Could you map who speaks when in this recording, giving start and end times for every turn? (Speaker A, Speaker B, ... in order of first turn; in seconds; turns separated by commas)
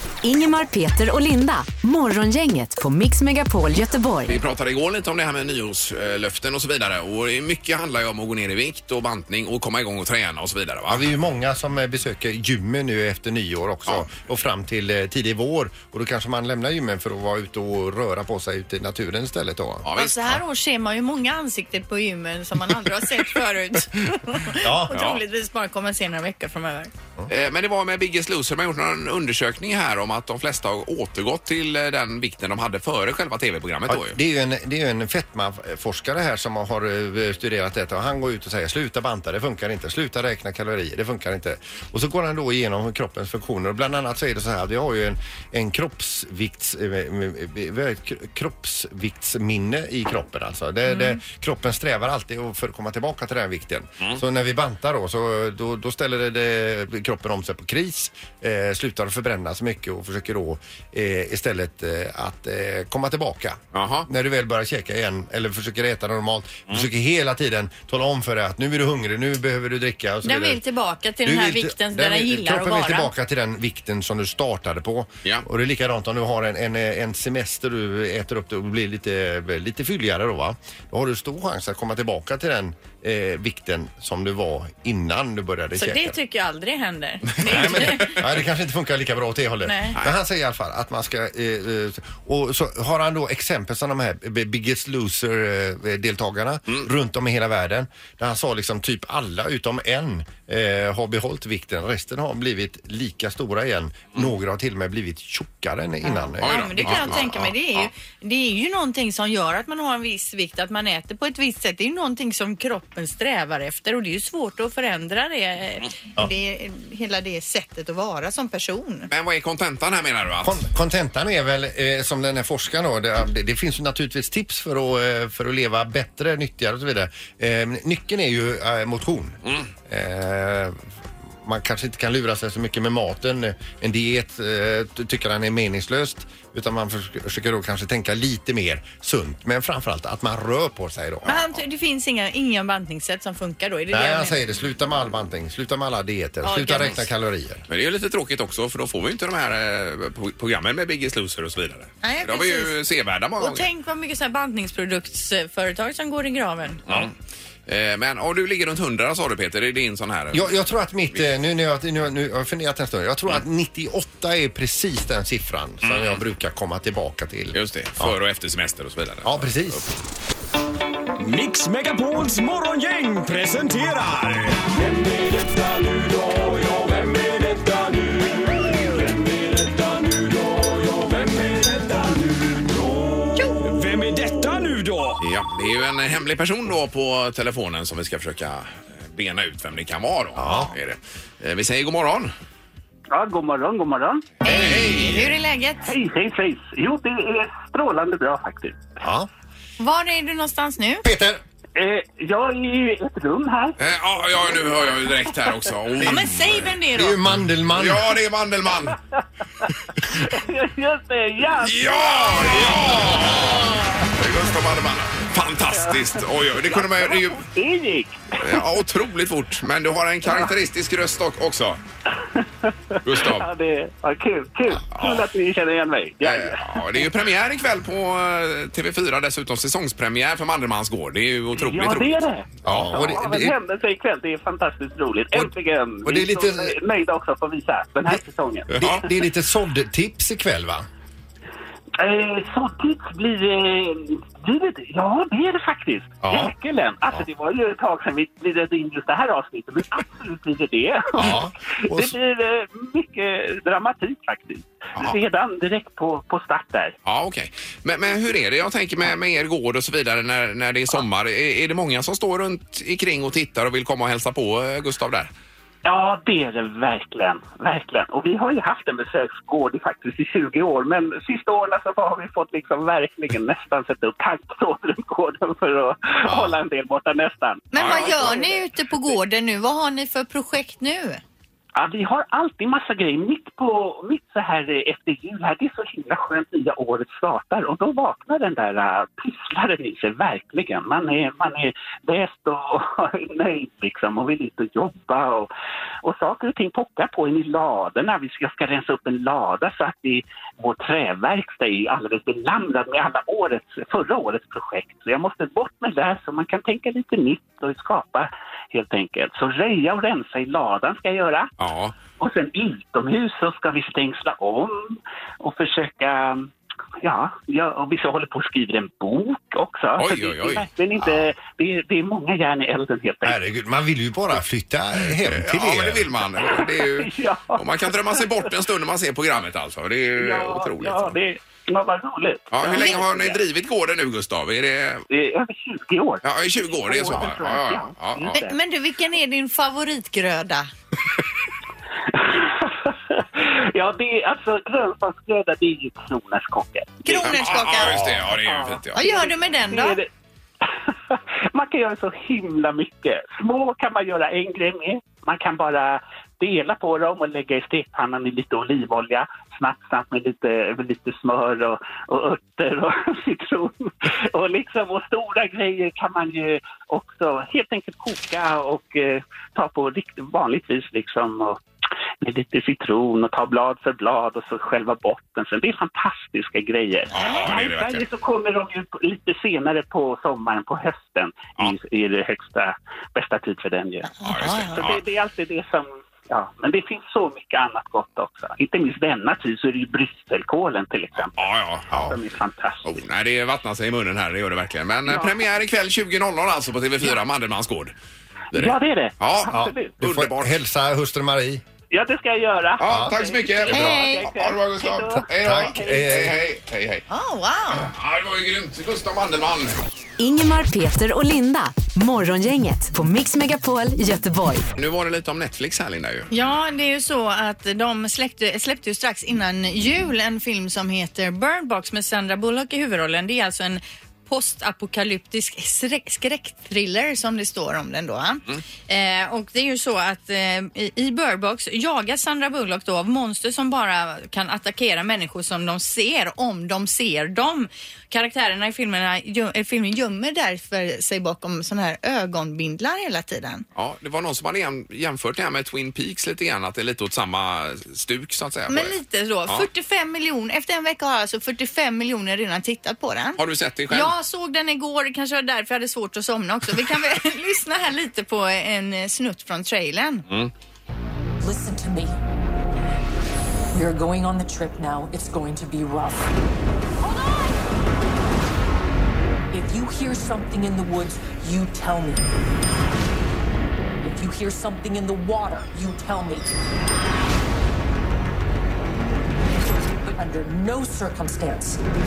Speaker A: 0.2-4.3, Speaker B: 4.3-11.1, Speaker C: 10.9-19.9, Speaker B: 19.8-20.4, Speaker D: 20.0-26.9, Speaker C: 24.6-24.9, Speaker B: 24.9-25.2, Speaker B: 27.3-34.2, Speaker C: 33.9-70.6, Speaker D: 50.9-51.2, Speaker B: 63.7-64.1, Speaker D: 70.2-73.1, Speaker C: 71.2-86.2, Speaker D: 85.8-88.2, Speaker C: 87.4-107.5, Speaker B: 87.5-88.2, Speaker D: 89.6-90.0, Speaker D: 106.0-119.1, Speaker B: 106.4-107.9, Speaker B: 119.1-120.6, Speaker C: 120.4-130.8, Speaker C: 131.4-141.4, Speaker B: 141.2-141.6, Speaker D: 141.2-144.4, Speaker C: 143.9-147.6, Speaker D: 146.4-147.1, Speaker B: 147.7-153.7, Speaker D: 152.0-152.7, Speaker D: 153.4-156.8, Speaker B: 157.7-161.3, Speaker C: 160.3-168.2, Speaker B: 165.8-166.2, Speaker B: 167.5-169.9, Speaker C: 169.2-169.9, Speaker E: 171.2-185.2, Speaker B: 185.2-192.3, Speaker C: 190.4-190.7, Speaker F: 193.1-194.4, Speaker D: 194.4-195.9, Speaker B: 194.4-195.3, Speaker F: 195.8-199.0, Speaker C: 199.0-199.3, Speaker D: 199.8-201.1, Speaker C: 201.0-201.4, Speaker F: 201.8-203.8, Speaker B: 203.8-206.6, Speaker C: 206.0-208.1, Speaker D: 206.0-207.2, Speaker B: 207.7-209.0, Speaker F: 209.6-213.2, Speaker B: 211.5-217.4, Speaker F: 215.7-218.6, Speaker B: 218.4-221.8, Speaker F: 220.3-220.5, Speaker F: 222.1-227.1, Speaker B: 223.0-223.5, Speaker B: 224.9-225.3, Speaker B: 226.2-232.9, Speaker F: 231.6-239.1, Speaker C: 232.7-233.6, Speaker C: 236.1-236.7, Speaker C: 238.8-240.8, Speaker F: 242.0-256.9, Speaker C: 246.2-246.5, Speaker C: 251.2-252.1, Speaker B: 257.0-265.3, Speaker F: 265.8-279.2, Speaker B: 276.2-276.6, Speaker D: 277.7-281.2, Speaker B: 277.8-278.3, Speaker F: 281.7-295.5, Speaker F: 296.0-311.5, Speaker B: 311.6-312.0, Speaker F: 312.2-316.5, Speaker F: 317.0-323.4, Speaker B: 320.0-321.2, Speaker C: 323.3-326.1, Speaker B: 325.2-331.2, Speaker F: 326.4-328.3, Speaker F: 330.2-333.4, Speaker B: 332.5-335.1, Speaker F: 335.1-338.6, Speaker B: 336.2-338.4, Speaker D: 338.3-340.7, Speaker F: 342.1-347.4, Speaker D: 347.0-348.0, Speaker B: 347.2-349.1, Speaker C: 347.9-348.2, Speaker F: 348.3-350.1, Speaker D: 348.9-350.0, Speaker F: 350.6-371.6, Speaker F: 372.2-384.1, Speaker B: 377.1-378.1, Speaker D: 384.0-384.8, Speaker B: 384.2-385.0, Speaker F: 384.8-393.1, Speaker B: 391.2-392.3, Speaker B: 392.8-397.9, Speaker F: 395.1-395.5, Speaker B: 398.5-400.6, Speaker F: 398.5-399.9, Speaker C: 399.5-401.6, Speaker F: 401.9-406.0, Speaker B: 402.8-407.1, Speaker C: 402.9-403.1, Speaker D: 403.7-404.3, Speaker C: 405.2-406.4, Speaker D: 407.1-407.9, Speaker B: 407.7-409.9, Speaker A: 410.2-414.7, Speaker B: 414.8-416.3, Speaker D: 416.3-443.6, Speaker B: 443.8-448.9, Speaker D: 448.7-460.3, Speaker B: 453.4-454.1, Speaker G: 461.4-462.2, Speaker G: 463.7-466.3, Speaker G: 469.5-472.3, Speaker G: 474.0-476.5, Speaker G: 479.7-481.8